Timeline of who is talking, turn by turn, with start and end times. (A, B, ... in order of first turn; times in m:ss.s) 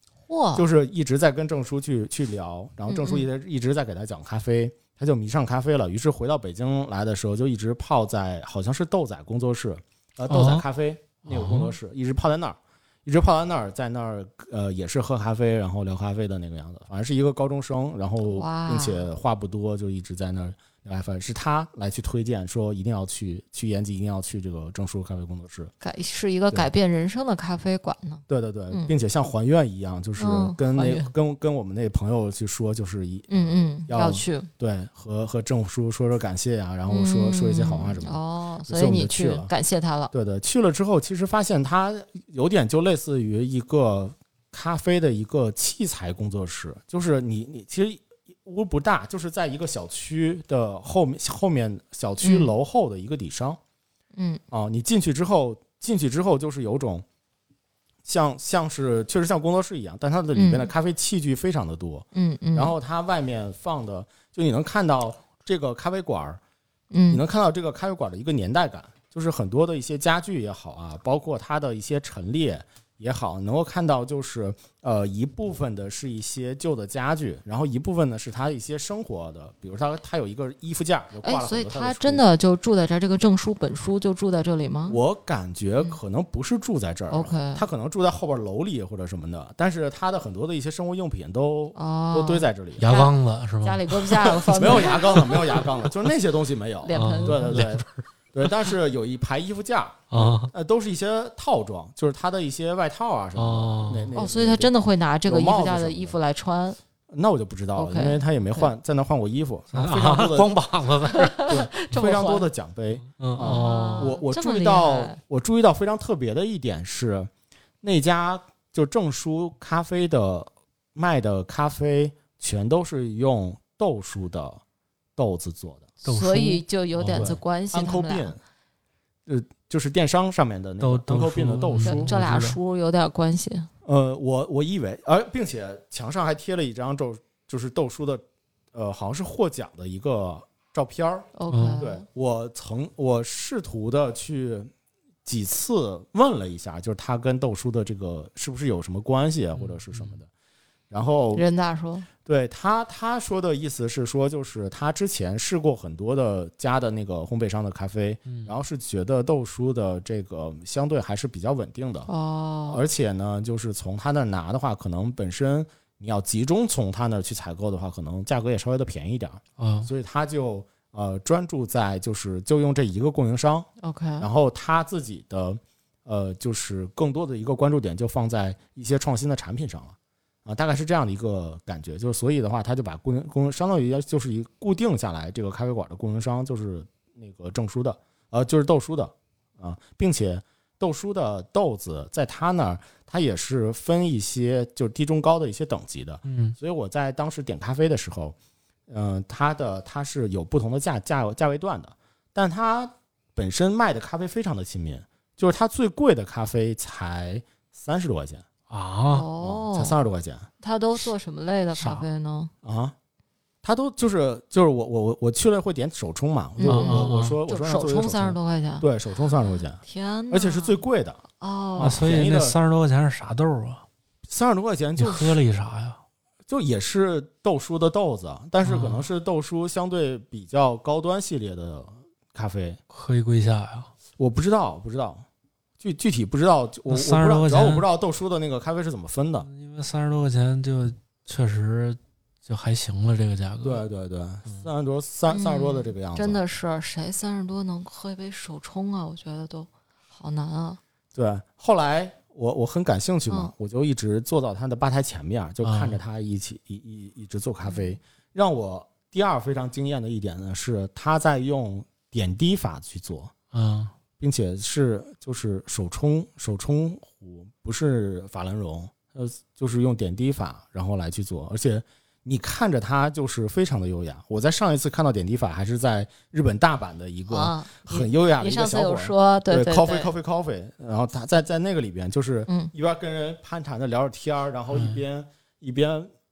0:00.3-0:00.6 A
0:00.5-0:25.7 B
0:02.9-0:03.3 A
0:10.3-0:10.6 C
0:11.2-0:11.7 C
0:18.2-0:19.1 A
0:25.8-0:28.9 A
0:28.3-0:39.5 B
0:30.2-0:31.1 A
0:33.3-0:34.5 A
0:36.9-0:40.1 A
0:40.1-0:53.6 B
0:52.2-0:52.5 A
0:54.1-0:54.4 A
0:54.5-0:57.0 B
0:58.0-1:06.4 B
1:00.3-1:00.7 A
1:02.1-1:02.7 A
1:06.9-1:07.2 A
1:07.1-1:22.2 B
1:21.2-1:25.0 A
1:24.9-1:32.8 B
1:27.1-1:27.6 A
1:31.7-1:35.7 A
1:32.8-1:35.1 C
1:34.5-1:44.7 B
1:36.8-1:37.6 A
1:36.9-1:37.9 C
1:40.1-1:40.5 C
1:43.4-1:44.1 C
1:44.2-1:46.8 A
1:45.2-1:46.2 B
1:47.1-1:50.6 B
1:47.7-1:48.7 A
1:49.7-1:51.7 C
1:51.2-1:52.5 A
1:51.5-1:57.3 B
1:53.2-1:54.1 C
1:53.4-1:55.2 A
1:57.8-2:04.6 B
2:05.2-2:05.9 B
2:06.0-2:08.3 A
2:06.0-2:07.4 C
2:07.1-2:08.4 B
2:09.2-2:12.1 B
2:10.8-2:12.6 C
2:11.8-2:13.7 A
2:13.8-2:24.7 B
2:21.4-2:22.0 A
2:21.5-2:21.8 C
2:25.2-2:30.3 B
2:29.5-2:30.2 C
2:30.9-2:31.4 B
2:31.3-2:32.1 A
2:32.2-2:42.1 B
2:38.2-2:38.5 C
2:42.1-2:42.8 A
2:42.7-2:53.7 B
2:49.6-2:49.9 C
2:53.8-2:54.3 A
2:54.2-3:18.3 B
3:16.2-3:16.5 C
3:18.9-3:28.4 B
3:28.7-3:29.2 C
3:29.1-3:30.0 A
3:29.4-3:30.5 B
3:30.6-3:32.5 A
3:31.8-3:32.0 C
3:32.6-3:32.9 B
3:33.6-3:41.2 B
3:36.6-3:38.8 A
3:36.6-3:37.4 C
3:39.8-3:40.8 A
3:41.4-3:42.0 A
3:41.8-3:42.6 B
3:41.8-3:43.8 C
3:44.2-3:45.4 B
3:45.0-3:46.0 C
3:46.5-3:52.8 B
3:48.6-3:49.1 C
3:52.9-3:53.9 C
3:54.2-3:55.2 B
3:55.8-3:59.5 B
3:56.9-3:57.8 C
3:59.4-4:03.8 C
4:03.6-4:06.4 B
4:05.3-4:10.8 A
4:11.1-4:23.3 B
4:15.6-4:16.0 C
4:17.6-4:18.0 A
4:23.5-4:23.9 C
4:24.2-4:46.1 B
4:37.3-4:40.1 A
4:44.7-4:45.0 C